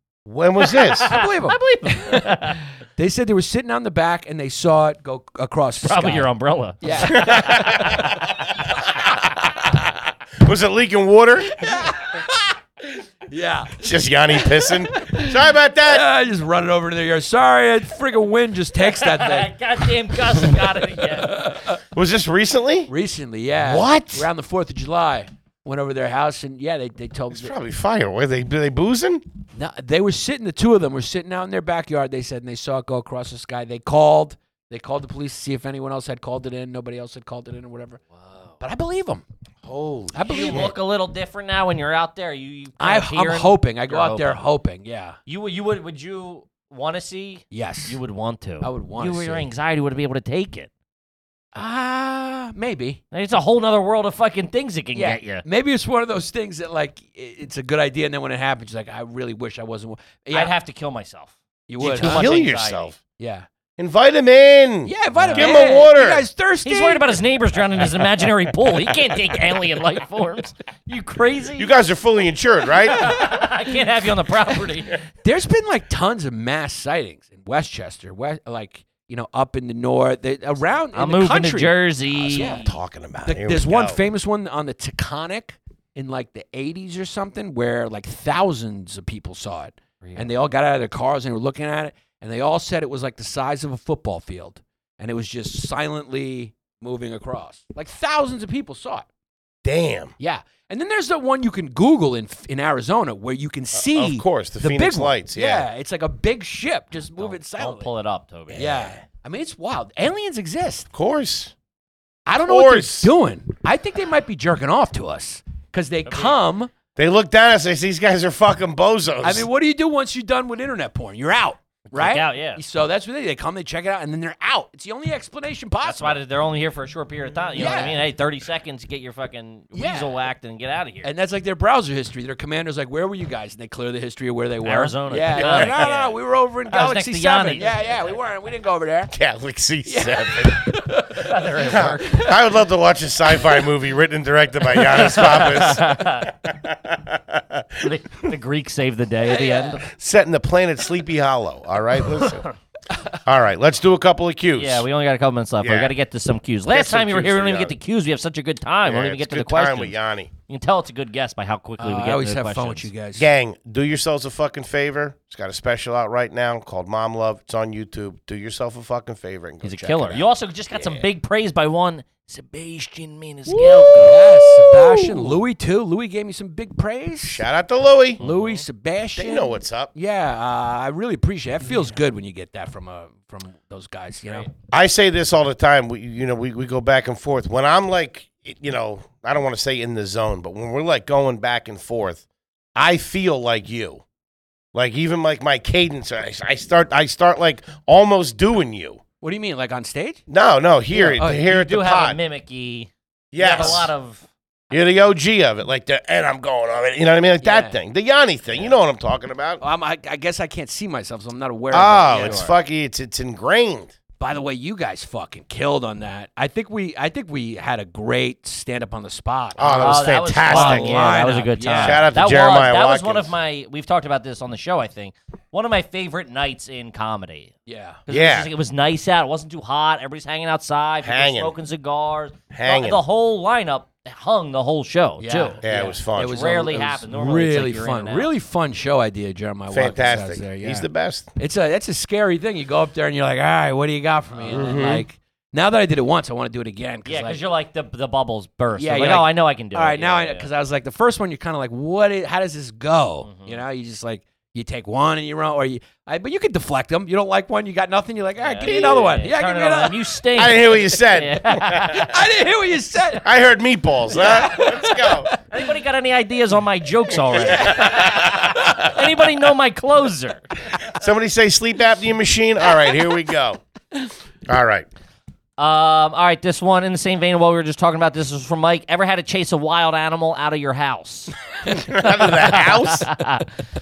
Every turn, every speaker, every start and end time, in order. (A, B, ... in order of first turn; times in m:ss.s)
0:00.2-0:01.1 A
0:00.7-0:02.6 B
0:00.8-0:06.3 C
0:05.8-0:08.2 B
0:06.8-0:08.1 C
0:07.0-0:12.0 A
0:11.6-0:21.8 C
0:13.8-0:16.0 A
0:18.8-0:21.5 B
0:21.9-0:22.9 A
0:22.9-0:27.5 C
0:23.6-0:24.3 A
0:27.3-0:29.2 A
0:29.6-0:38.0 C
0:38.2-0:38.5 B
0:38.6-0:39.2 C
0:39.6-0:40.7 A
0:40.1-0:40.7 C
0:40.2-0:44.4 B
0:42.8-0:45.2 C
0:45.3-0:50.7 B
0:47.5-0:48.0 C
0:48.6-0:49.5 C
0:51.5-0:53.0 C
0:53.1-0:55.4 B
0:54.9-1:00.5 C
1:00.3-1:02.9 B
1:01.7-1:02.4 C
1:02.0-1:02.9 A
1:03.2-1:03.5 C
1:03.8-1:06.2 A
1:04.8-1:07.2 C
1:05.1-1:05.6 B
1:06.6-1:11.7 B
1:11.6-1:13.0 A
1:12.9-1:15.0 B
1:12.9-1:13.4 C
1:15.2-1:22.7 C
1:20.9-1:22.7 B
1:22.2-1:24.0 A
1:23.2-1:39.0 C
1:30.0-1:30.3 B
1:39.6-1:40.1 A
1:40.2-1:47.9 C
1:43.8-1:45.6 A
1:47.2-1:48.7 B
1:48.5-1:48.9 A
1:48.5-1:50.9 C
1:50.9-1:51.5 A
1:52.2-1:56.7 C
1:52.4-1:53.1 A
1:56.1-1:56.3 B
1:57.0-1:59.4 A
1:59.2-2:06.2 C
2:01.9-2:02.6 B
2:05.8-2:11.1 B
2:07.5-2:08.0 C
2:09.7-2:10.2 C
2:11.0-2:19.1 C
2:14.6-2:16.2 B
2:16.7-2:17.7 B
2:19.1-2:20.7 A
2:19.8-2:22.3 C
2:21.2-2:22.1 B
2:21.7-2:28.3 A
2:24.7-2:26.3 B
2:27.8-2:29.9 B
2:29.3-2:29.8 C
2:29.9-2:32.4 A
2:32.2-2:32.6 B
2:33.2-2:34.9 A
2:34.6-2:40.0 B
2:35.6-2:35.9 A
2:36.7-2:37.7 A
2:38.9-2:40.3 A
2:40.5-2:42.9 B
2:41.8-2:43.3 C
2:43.2-2:51.0 A
2:49.6-2:54.3 B
2:53.5-2:54.3 A
2:54.0-2:57.4 C
2:57.2-2:58.2 A
2:58.2-2:58.6 B
2:58.2-3:04.5 C
2:59.1-2:59.9 A
3:04.7-3:12.2 A
3:12.7-3:14.0 A
3:14.7-3:19.0 A
3:19.2-3:20.2 C
3:20.3-3:22.2 A
3:20.9-3:21.5 C
3:21.4-3:24.2 B
3:23.3-3:23.9 A
3:23.5-3:23.9 C
3:24.7-3:29.6 A
3:27.4-3:27.8 C
3:29.6-3:32.4 C
3:31.7-3:33.9 A
3:32.1-3:32.5 B
3:34.2-3:42.1 C
3:39.6-3:41.2 A
3:39.6-3:47.5 B
3:41.8-3:43.3 A
3:47.6-3:48.0 C
3:48.1-3:55.6 B
3:48.1-3:48.5 A
3:51.0-3:51.5 A
3:52.5-3:53.0 A
3:55.2-4:07.4 C
3:55.6-3:56.4 A
3:56.2-3:58.3 B
3:59.7-4:01.3 A
4:04.3-4:04.8 B
4:04.5-4:05.0 A
4:07.0-4:10.5 B
4:08.8-4:20.2 C
4:13.2-4:13.6 B
4:18.4-4:22.2 B
4:18.6-4:19.1 A
4:20.3-4:22.0 A
4:21.9-4:23.3 C
4:23.2-4:25.3 A
4:24.1-4:25.7 C
4:25.5-4:30.4 B
4:27.2-4:28.9 C
4:27.4-4:28.8 A
4:30.9-4:33.6 A
4:34.5-4:34.9 A
4:35.6-4:43.5 B
4:41.6-4:43.1 A